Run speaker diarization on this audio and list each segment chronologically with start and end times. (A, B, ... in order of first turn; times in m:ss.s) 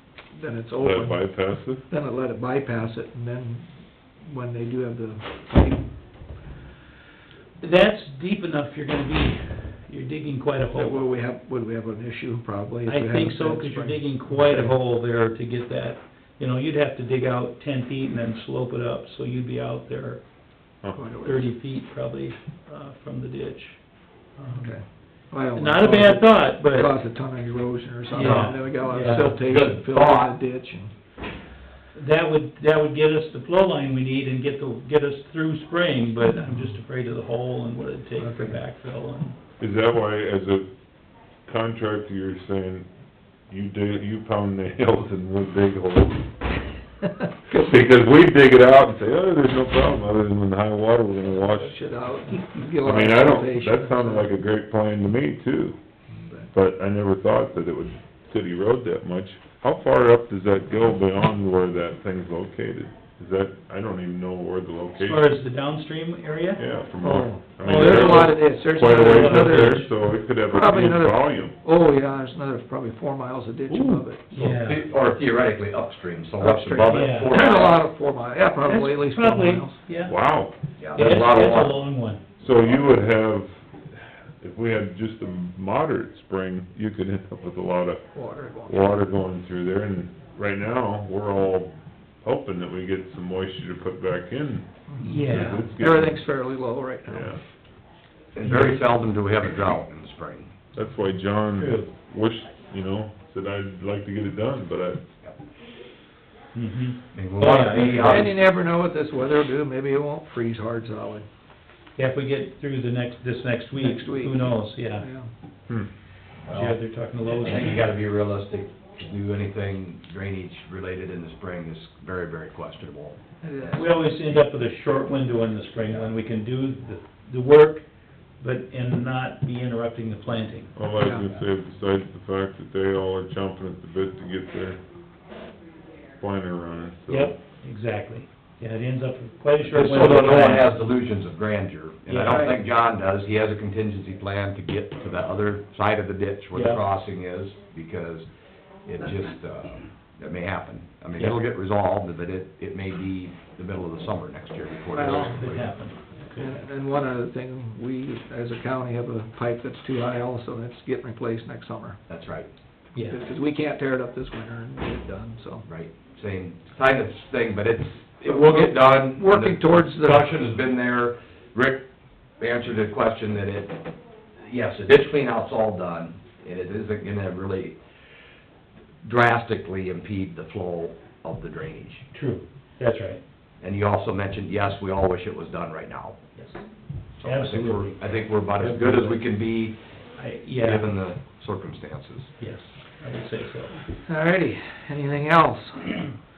0:00.3-0:03.7 A
0:00.8-0:01.8 B
0:04.2-0:05.9 A
0:07.6-0:11.0 C
0:10.7-0:14.8 A
0:12.8-0:20.2 C
0:20.9-0:21.5 A
0:21.2-0:23.8 C
0:24.4-0:24.8 C
0:24.5-0:30.9 A
0:25.5-0:26.9 C
0:28.1-0:29.3 C
0:28.2-0:30.3 D
0:31.9-0:39.4 C
0:38.2-0:38.6 A
0:39.6-0:40.7 B
0:41.4-0:42.9 B
0:43.5-0:46.3 B
0:47.2-0:47.8 A
0:47.5-0:51.7 B
0:51.3-0:54.3 A
0:52.8-0:55.8 B
0:56.1-0:56.5 A
0:56.5-1:05.3 B
1:05.0-1:06.6 C
1:06.6-1:11.5 B
1:07.0-1:14.5 A
1:07.6-1:09.8 C
1:13.7-1:14.0 B
1:14.3-1:14.8 C
1:14.4-1:17.8 D
1:16.4-1:19.8 A
1:16.9-1:17.5 C
1:18.6-1:20.2 C
1:20.1-1:21.8 B
1:20.8-1:21.6 D
1:20.9-1:22.2 C
1:22.4-1:28.0 B
1:28.1-1:29.0 A
1:28.6-1:36.2 B
1:34.9-1:37.3 A
1:35.0-1:35.7 C
1:37.1-1:37.4 B
1:38.3-1:40.5 D
1:40.7-1:45.0 B
1:41.6-1:41.9 C
1:46.5-1:48.2 C
1:47.1-1:48.3 D
1:48.0-1:51.3 A
1:52.0-1:55.0 C
1:53.7-1:55.3 A
1:56.4-2:03.8 D
1:56.5-1:57.9 C
2:03.4-2:03.9 A
2:03.7-2:07.8 C
2:08.4-2:10.7 C
2:10.7-2:14.8 B
2:11.0-2:11.4 A
2:16.2-2:17.4 B
2:17.1-2:20.7 C
2:19.6-2:28.3 D
2:22.1-2:22.5 C
2:22.2-2:22.6 A
2:26.5-2:26.8 C
2:28.8-2:35.7 D
2:34.9-2:36.5 C
2:34.9-2:35.3 A
2:36.4-2:42.0 A
2:42.1-2:42.5 D
2:43.1-2:45.6 A
2:45.6-2:51.8 D
2:48.2-2:50.3 A
2:52.4-2:57.8 D
2:59.0-3:02.0 D
3:02.1-3:03.2 C
3:03.6-3:06.2 D
3:06.4-3:06.6 C
3:07.2-3:09.8 D
3:07.2-3:08.0 C
3:08.6-3:09.2 C
3:10.2-3:10.8 C
3:10.6-3:12.3 D
3:12.4-3:13.8 C
3:14.0-3:16.1 A